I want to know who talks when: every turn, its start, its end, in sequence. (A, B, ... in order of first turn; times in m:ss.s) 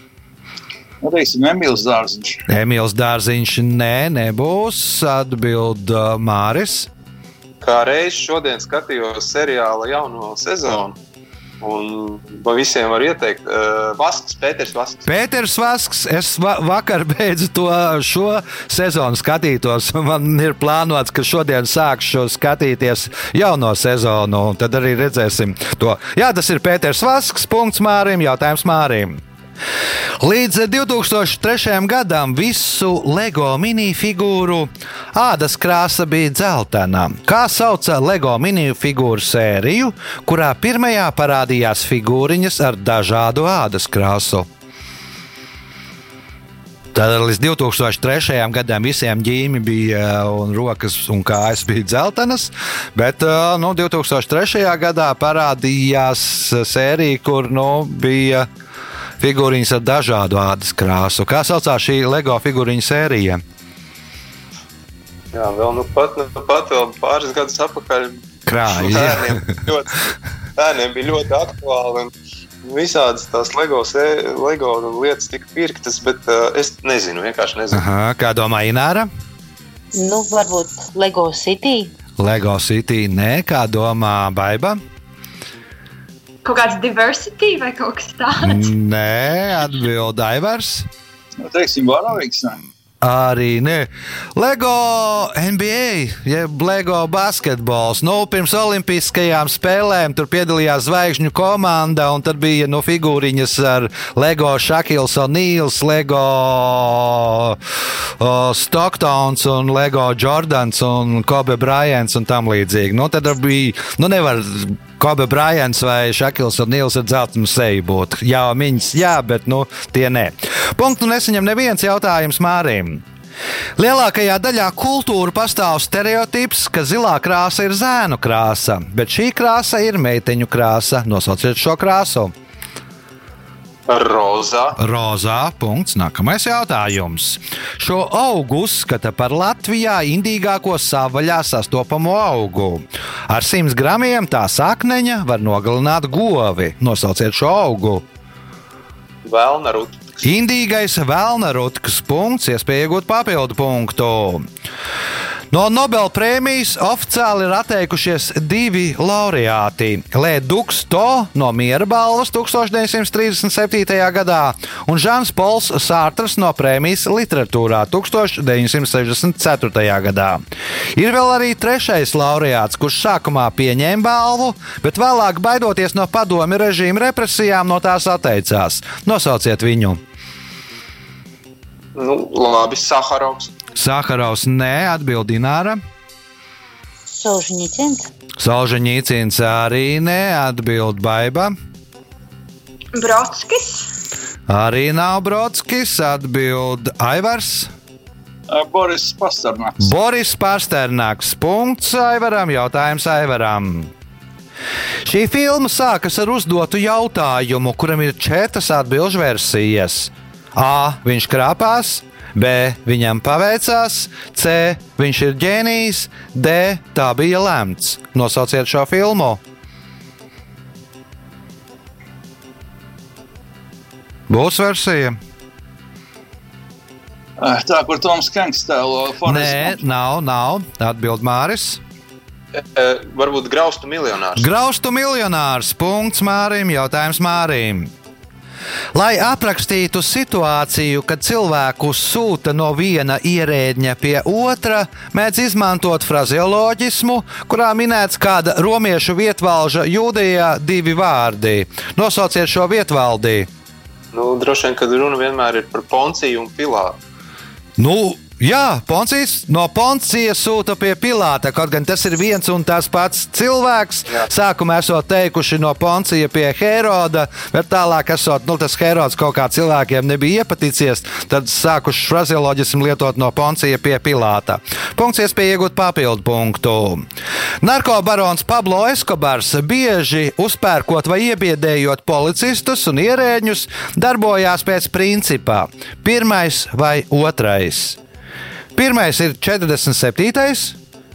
0:01.0-0:02.4 A
0:02.5-0:06.9 B
0:07.6-0:11.0 C
0:11.6-0:15.1 C
0:15.1-0:29.2 B
0:30.2-0:44.5 B
0:46.9-0:58.5 B
0:59.2-1:03.4 B
1:05.3-1:12.1 C
1:08.5-1:09.4 B
1:12.6-1:17.8 C
1:17.7-1:19.1 B
1:19.9-1:21.9 D
1:22.2-1:24.8 B
1:26.4-1:28.7 E
1:28.4-1:30.9 B
1:31.4-1:32.6 A
1:33.0-1:47.6 B
1:48.2-2:03.0 B
2:03.8-2:12.3 B
2:13.9-2:14.8 C
2:14.8-2:28.0 B
2:29.2-2:30.2 C
2:30.2-2:34.4 B
2:35.5-2:50.4 B
2:50.9-3:00.0 B
3:01.9-3:03.5 C
3:03.7-3:05.8 B
3:07.1-3:08.1 D
3:08.4-3:11.5 B
3:12.9-3:13.9 E
3:14.5-3:17.7 B
3:18.5-3:19.9 A
3:19.8-3:23.9 B
3:25.0-3:39.4 B
3:44.3-3:45.2 B
3:47.4-3:49.8 A
3:49.2-3:51.8 B
3:52.5-3:54.5 C
3:54.4-3:57.9 B
3:58.9-4:13.5 B
4:14.1-4:17.0 C
4:17.8-4:37.0 B
4:37.6-4:48.0 B
4:48.7-4:50.8 B